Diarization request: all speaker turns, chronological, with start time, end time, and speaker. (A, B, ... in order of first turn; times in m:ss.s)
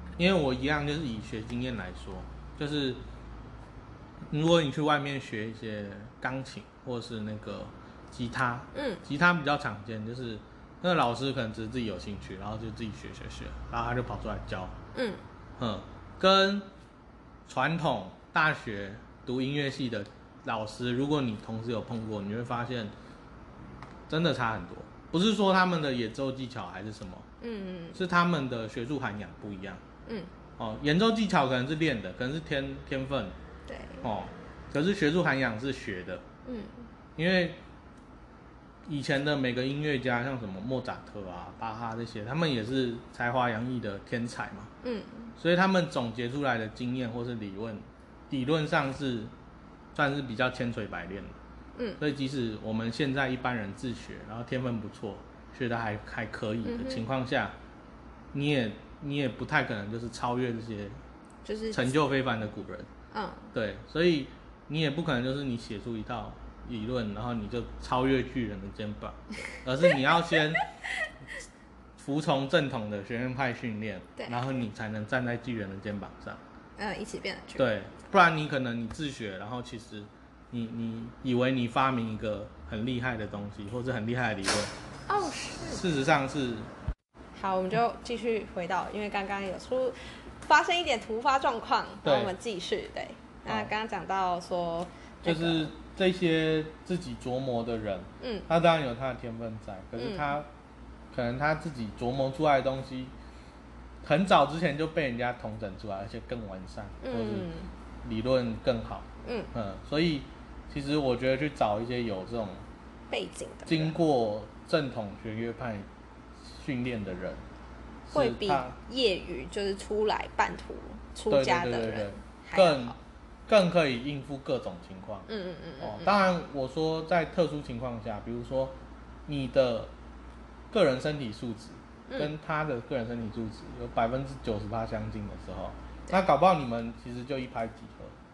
0:00.2-0:03.0 A
0:04.3-0:14.8 A
0:08.7-0:09.0 B
0:15.0-0:15.2 B
0:15.6-0:16.7 A
0:17.5-0:22.9 A
0:24.1-0:27.3 A
0:27.4-0:28.0 B
0:27.9-0:29.8 A
0:30.6-0:33.4 A
0:33.7-0:34.1 B
0:34.0-0:36.2 A
0:36.4-0:36.9 B
0:37.2-0:37.6 A
0:38.9-0:44.7 A
0:44.8-0:45.3 B
0:45.4-0:49.3 A
0:50.0-0:51.4 A
0:52.0-0:57.5 A
0:56.6-0:57.0 B
0:58.3-1:01.0 A
1:01.4-1:01.9 B
1:01.7-1:02.9 A
1:03.1-1:03.5 B
1:03.5-1:10.7 A
1:12.0-1:16.4 A
1:16.8-1:17.7 B
1:17.6-1:24.7 A
1:25.1-1:25.8 B
1:25.7-1:26.7 A
1:27.4-1:35.7 B
1:32.0-1:32.3 A
1:33.5-1:33.7 A
1:35.2-1:40.5 A
1:38.2-1:38.5 B
1:40.0-1:40.4 B
1:41.1-1:43.1 A
1:44.0-1:47.5 A
1:47.0-1:47.7 B
1:48.0-1:52.6 A
1:49.2-1:49.5 B
1:53.1-1:54.0 B
1:53.7-1:55.9 A
1:56.5-1:57.4 A
1:58.1-1:58.8 A
1:58.1-2:03.0 B
2:01.3-2:03.0 A
2:03.5-2:05.3 A
2:05.3-2:06.1 B
2:05.8-2:09.9 A
2:10.7-2:18.2 A
2:12.1-2:12.3 B